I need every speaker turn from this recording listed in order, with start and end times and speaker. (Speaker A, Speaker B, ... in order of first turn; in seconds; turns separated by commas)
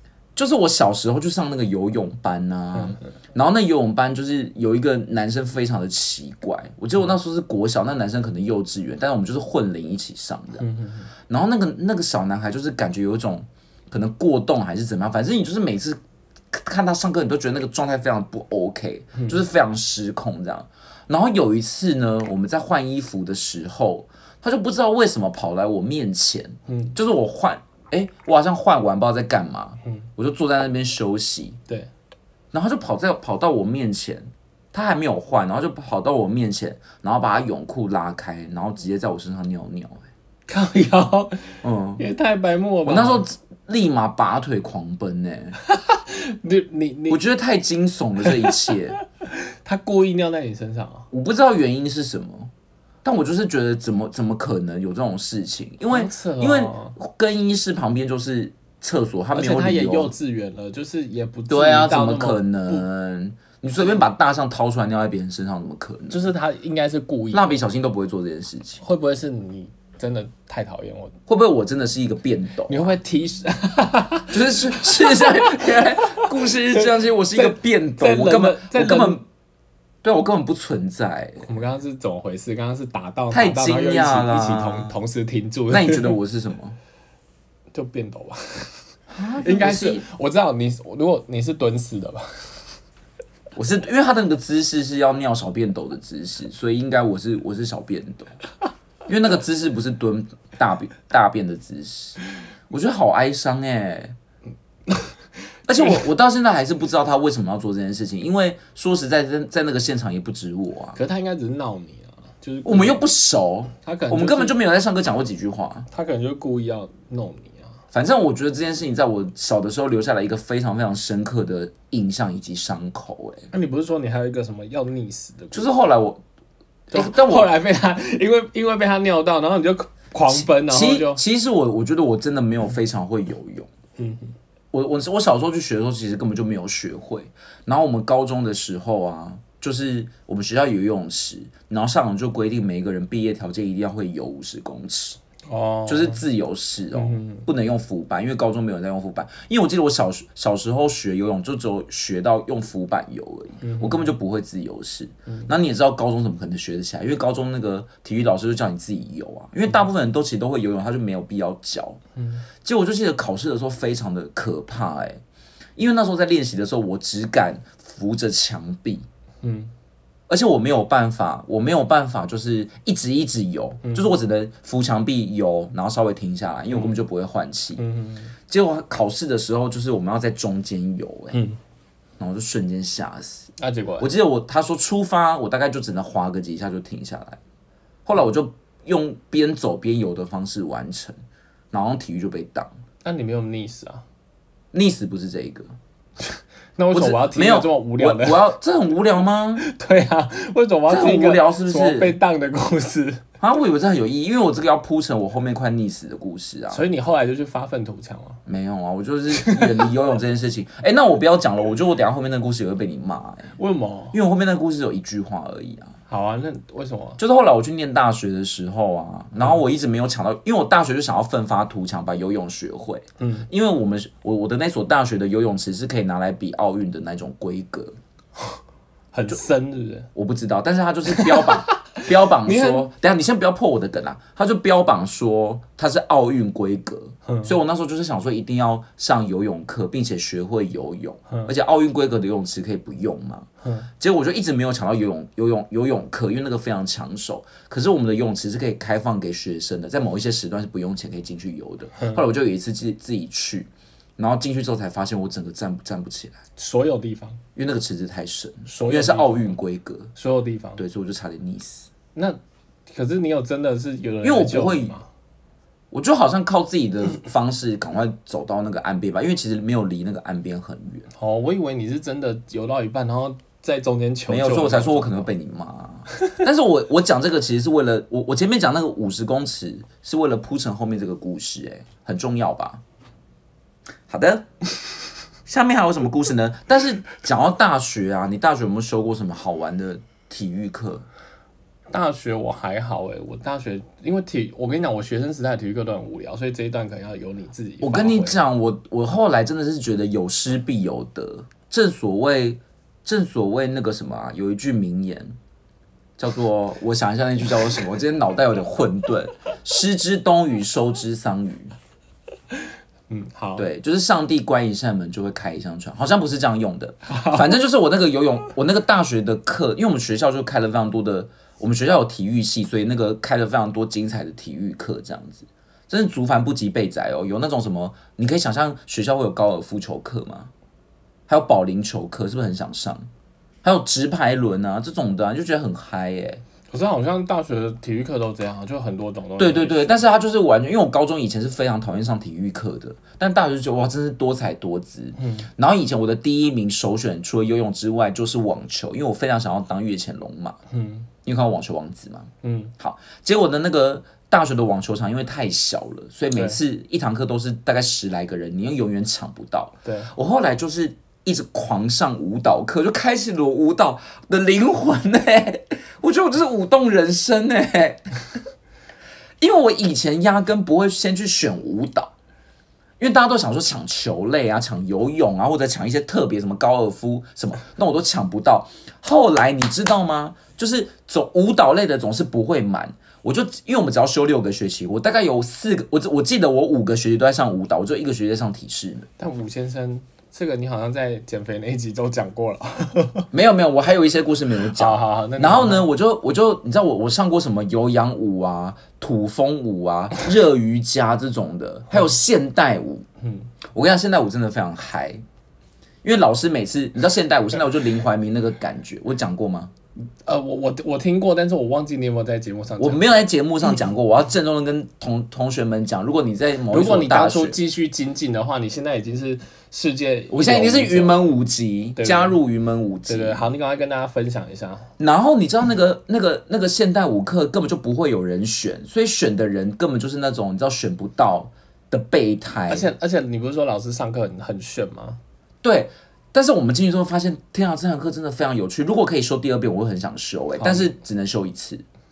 Speaker A: 0.4-10.7, Speaker B: 2.8-3.0, Speaker B: 10.6-11.1, Speaker A: 11.3-16.0, Speaker A: 16.5-31.6, Speaker B: 19.2-19.4, Speaker B: 26.7-27.0, Speaker A: 32.5-40.0, Speaker B: 40.5-43.3, Speaker A: 41.6-42.0, Speaker A: 42.9-45.6, Speaker B: 45.6-47.2, Speaker A: 47.1-49.0, Speaker B: 48.3-51.1, Speaker A: 51.1-52.5, Speaker A: 53.0-60.1, Speaker B: 55.9-57.0, Speaker B: 59.3-62.9, Speaker A: 61.5-66.3, Speaker B: 66.1-67.6, Speaker A: 67.3-68.8, Speaker B: 68.8-71.2, Speaker A: 71.3-73.0, Speaker B: 72.7-79.2, Speaker A: 74.3-79.2, Speaker A: 80.0-81.5, Speaker B: 81.4-86.2, Speaker A: 83.3-85.0, Speaker A: 85.7-86.8, Speaker B: 87.7-88.8, Speaker A: 89.1-90.0, Speaker B: 89.4-92.6, Speaker A: 93.6-98.4, Speaker A: 99.1-102.2, Speaker A: 102.7-104.2, Speaker B: 104.9-105.2, Speaker A: 105.7-111.0, Speaker B: 111.0-113.0, Speaker A: 112.7-115.9, Speaker B: 113.8-114.6, Speaker B: 115.9-117.8, Speaker A: 117.9-123.5, Speaker B: 123.5-125.7, Speaker A: 125.5-126.2, Speaker A: 126.9-127.5, Speaker B: 126.9-131.2, Speaker A: 130.3-133.7, Speaker B: 134.0-134.3, Speaker A: 134.7-145.2, Speaker B: 145.5-146.2, Speaker A: 145.9-162.0, Speaker B: 146.9-147.4, Speaker B: 153.6-154.1, Speaker B: 162.2-162.5, Speaker A: 162.6-165.2, Speaker A: 165.8-169.1, Speaker B: 169.4-169.7, Speaker A: 170.3-177.8, Speaker B: 173.8-174.1, Speaker B: 177.8-178.3, Speaker A: 178.5-181.4, Speaker B: 181.3-181.6, Speaker A: 182.2-187.4, Speaker B: 183.6-184.1, Speaker A: 188.1-191.2, Speaker A: 191.7-192.7, Speaker B: 193.1-194.0, Speaker A: 194.7-195.7, Speaker B: 196.2-198.5, Speaker A: 196.9-199.6, Speaker B: 199.6-203.2, Speaker A: 200.9-202.2, Speaker A: 203.4-206.9, Speaker B: 206.7-208.4, Speaker A: 208.5-213.5, Speaker B: 209.3-209.8, Speaker B: 213.6-214.2, Speaker A: 214.1-215.9, Speaker B: 216.1-217.2, Speaker A: 217.2-227.9, Speaker B: 223.2-223.5, Speaker B: 229.1-230.1, Speaker A: 230.2-243.5, Speaker B: 231.1-232.9, Speaker B: 237.3-237.5, Speaker B: 243.6-243.9, Speaker A: 244.0-256.4, Speaker B: 252.0-252.2, Speaker B: 256.6-257.4, Speaker A: 257.6-260.1, Speaker B: 258.7-259.6, Speaker B: 260.2-260.8, Speaker A: 260.8-261.9, Speaker B: 262.1-265.1, Speaker A: 264.2-264.9, Speaker A: 265.9-271.1, Speaker B: 271.2-275.3, Speaker A: 274.3-282.8, Speaker A: 284.1-284.5, Speaker A: 285.5-291.1, Speaker B: 291.9-298.4, Speaker A: 297.8-305.4, Speaker A: 306.2-311.8, Speaker B: 313.1-313.7, Speaker A: 313.6-330.5, Speaker B: 317.1-317.5, Speaker A: 331.3-333.1, Speaker A: 333.6-336.4, Speaker B: 336.7-340.0, Speaker A: 339.4-350.6, Speaker B: 345.2-345.5, Speaker B: 350.7-351.1, Speaker A: 351.2-368.1, Speaker B: 352.4-352.7, Speaker B: 359.9-360.1, Speaker A: 369.4-372.1, Speaker A: 373.0-389.1, Speaker B: 389.2-393.3, Speaker A: 393.3-403.1, Speaker B: 394.7-395.9, Speaker B: 403.2-403.5, Speaker A: 403.7-405.2, Speaker A: 406.0-409.7, Speaker B: 410.2-413.2, Speaker A: 412.8-417.6, Speaker B: 416.7-421.2, Speaker A: 420.3-423.4, Speaker B: 422.0-422.4, Speaker B: 423.1-424.9, Speaker A: 425.0-432.9, Speaker B: 432.7-435.2, Speaker A: 435.6-441.8, Speaker B: 440.6-440.9